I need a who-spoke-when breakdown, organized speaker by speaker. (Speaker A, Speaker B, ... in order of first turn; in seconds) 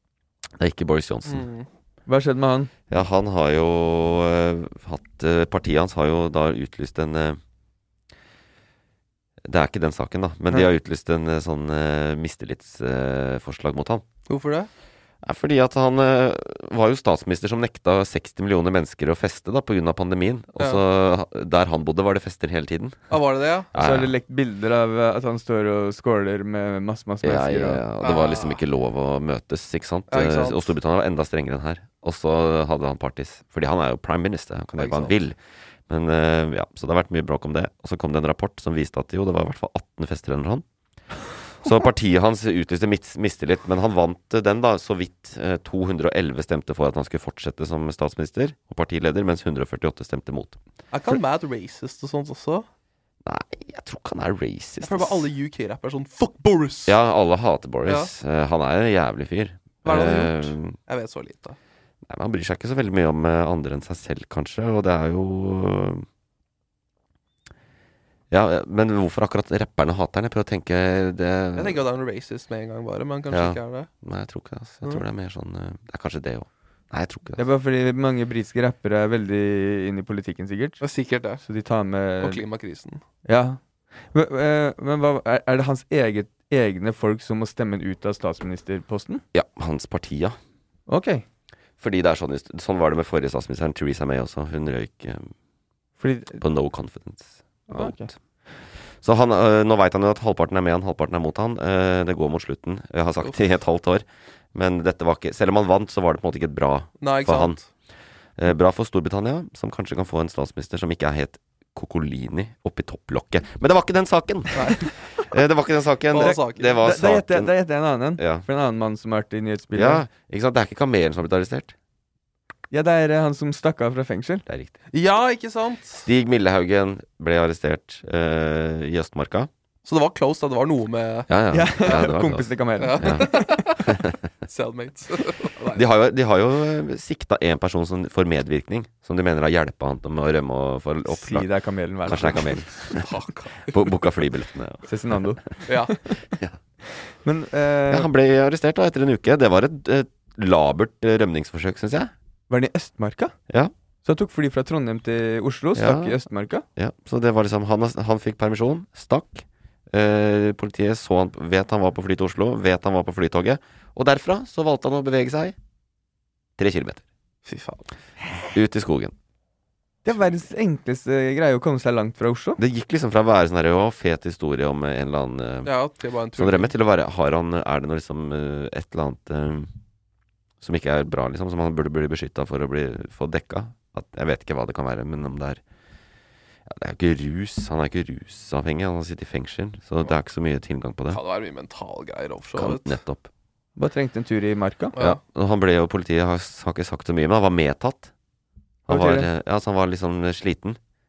Speaker A: 0.6-1.5, 2.9-7.4, 9.4-14.1, 15.2-23.1, 23.7-24.1, 27.2-40.6, 41.6-50.6, 53.2-55.3, 56.9-60.8, 62.1-66.1, 68.3-71.8, 73.3-77.4, 89.3-90.4, 91.8-95.3, 96.4-98.1, 99.0-107.6, 108.4-117.5, 118.2-118.5, 119.7-121.8, 124.5-124.8, 126.1-129.5, 131.3-132.5, 133.0-133.3, 133.8-134.2, 135.7-141.5, 142.1-143.1, 143.7-144.9, 146.3-146.6, 147.9-152.1, 155.8-156.2, 156.8-165.6, 166.6-167.1, 168.5-169.2, 172.6-175.7, 176.4-179.7, 180.6-185.6, 186.7-191.2, 192.6-193.3, 195.0-198.1, 198.9-200.8
Speaker B: 1.3-1.7, 14.3-14.7, 23.1-23.7, 28.0-28.6, 30.1-30.6, 34.8-35.1, 50.9-52.7, 54.8-57.0, 57.9-58.1, 59.8-61.6, 71.6-73.9, 80.8-81.4, 82.2-83.0, 107.0-107.6, 114.5-114.9, 116.1-116.8, 124.9-126.1, 129.8-131.3, 132.8-133.9, 134.4-135.8, 142.8-143.9, 145.7-145.9, 167.4-167.9, 175.7-176.7, 191.1-193.0
Speaker C: 2.1-2.7, 23.8-27.8, 77.4-80.8, 81.4-82.4, 83.2-83.6, 84.1-89.2, 90.9-91.2, 96.0-96.4, 97.7-98.1, 116.2-120.0, 122.7-124.4, 131.5-133.5, 141.1-142.6, 144.9-145.4, 146.9-148.1, 152.5-153.3, 154.1-156.7, 170.1-172.6, 193.8-194.9, 198.9-199.3